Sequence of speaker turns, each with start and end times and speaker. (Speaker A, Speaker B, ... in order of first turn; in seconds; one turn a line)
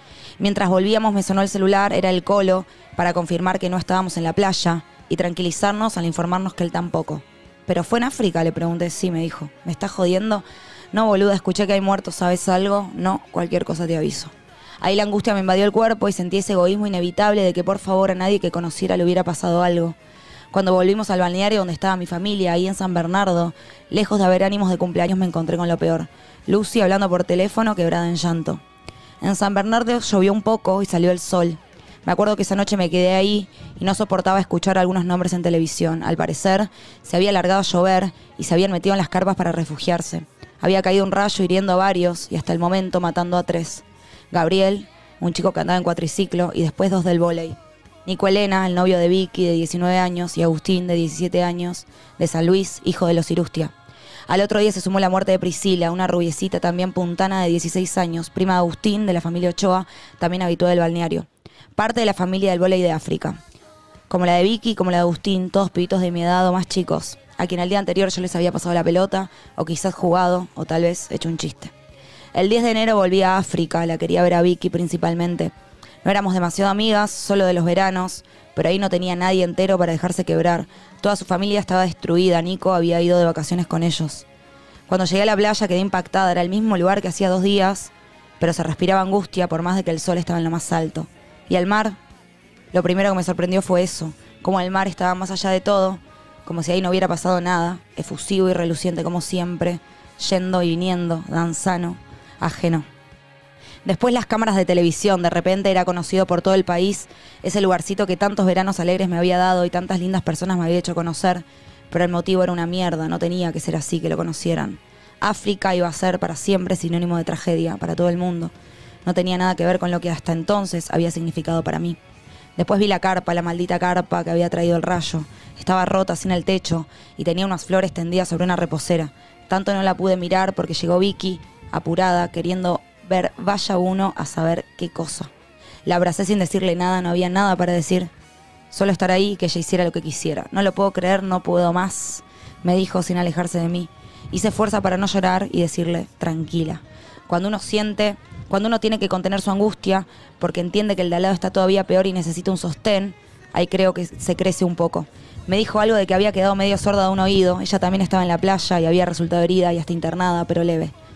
Speaker A: 0.4-19.9
Speaker A: 20.5-28.6
Speaker A: 29.2-53.7
Speaker A: 54.3-63.4
Speaker A: 64.1-71.7
Speaker A: 72.3-75.5
Speaker A: 76.0-84.2
Speaker A: 84.9-92.0
Speaker A: 92.7-102.9
Speaker A: 103.8-118.5
Speaker A: 119.0-122.0
Speaker A: 122.6-135.3
Speaker A: 135.9-138.1
Speaker A: 138.7-160.9